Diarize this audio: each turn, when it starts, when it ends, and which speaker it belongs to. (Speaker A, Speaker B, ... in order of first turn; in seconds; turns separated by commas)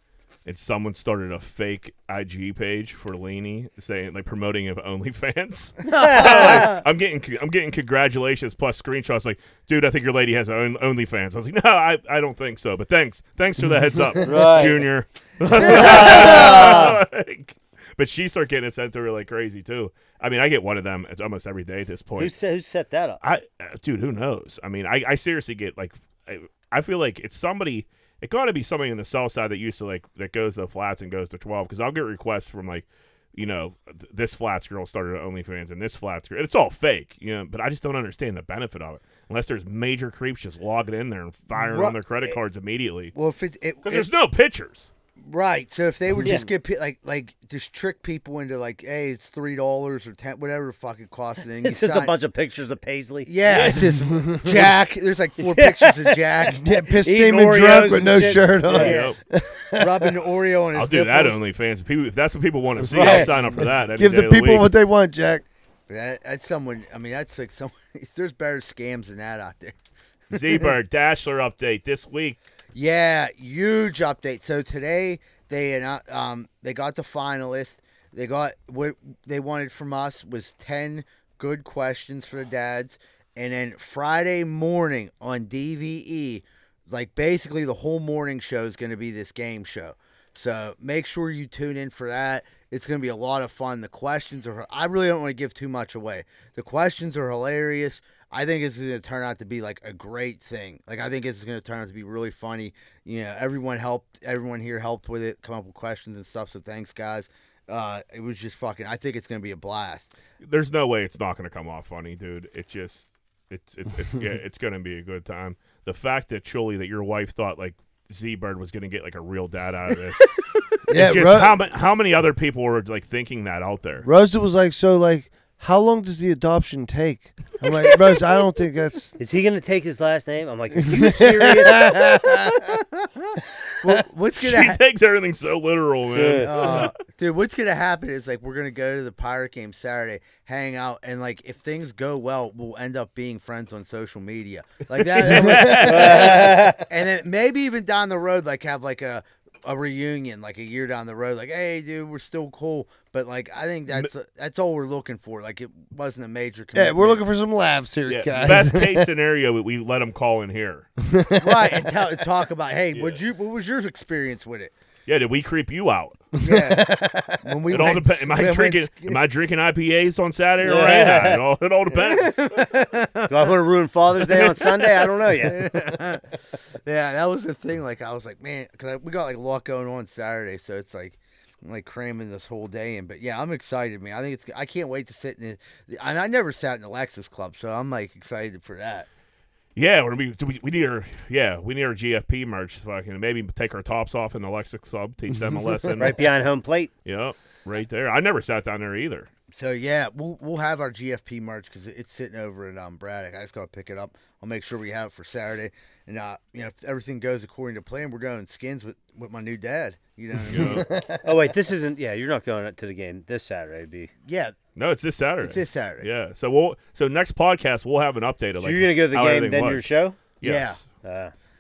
Speaker A: 0.5-22.3, Speaker B: 5.8-6.8, Speaker C: 5.9-6.8, Speaker C: 14.2-14.8, Speaker C: 15.6-17.0, Speaker B: 15.6-16.8, Speaker C: 22.2-23.2, Speaker A: 23.2-43.1, Speaker B: 41.5-42.4, Speaker B: 43.1-44.1, Speaker A: 43.8-44.9, Speaker B: 45.2-52.1, Speaker C: 46.2-46.5, Speaker C: 51.6-53.3, Speaker B: 53.3-57.0, Speaker A: 53.5-54.0, Speaker D: 54.3-54.6, Speaker C: 55.4-59.0, Speaker D: 56.6-60.2, Speaker B: 58.7-59.1, Speaker A: 58.8-59.2, Speaker B: 59.8-61.4, Speaker A: 60.7-64.7, Speaker C: 62.9-63.3, Speaker B: 63.0-63.3, Speaker D: 64.0-65.5, Speaker B: 65.9-69.8, Speaker A: 70.3-72.4, Speaker B: 70.3-70.7, Speaker B: 72.7-110.1, Speaker A: 110.4-120.4, Speaker D: 120.9-121.6, Speaker A: 120.9-124.1, Speaker D: 124.0-129.2, Speaker C: 129.2-131.9, Speaker D: 130.8-132.6, Speaker B: 132.0-134.8, Speaker A: 134.4-136.9, Speaker C: 136.1-136.5, Speaker B: 136.2-157.2, Speaker A: 145.0-146.5, Speaker C: 145.8-146.8, Speaker D: 156.7-159.1, Speaker A: 158.1-160.9, Speaker D: 161.0-161.8, Speaker B: 161.4-164.7, Speaker A: 162.9-163.2, Speaker A: 165.1-166.2, Speaker D: 166.4-167.6, Speaker B: 166.4-169.2, Speaker A: 167.7-172.5, Speaker C: 170.6-171.4, Speaker B: 171.9-173.6, Speaker C: 173.3-175.6, Speaker A: 174.3-175.1, Speaker B: 175.4-176.2, Speaker B: 176.8-189.1, Speaker A: 189.8-196.3, Speaker C: 196.0-196.9, Speaker A: 197.1-199.3, Speaker B: 199.5-211.3, Speaker A: 210.5-210.9, Speaker D: 210.6-211.0, Speaker C: 211.2-214.1, Speaker B: 214.3-214.6, Speaker A: 214.8-219.9, Speaker B: 215.4-216.1, Speaker C: 218.6-220.2, Speaker A: 220.4-220.8, Speaker B: 220.4-220.8, Speaker C: 221.0-221.3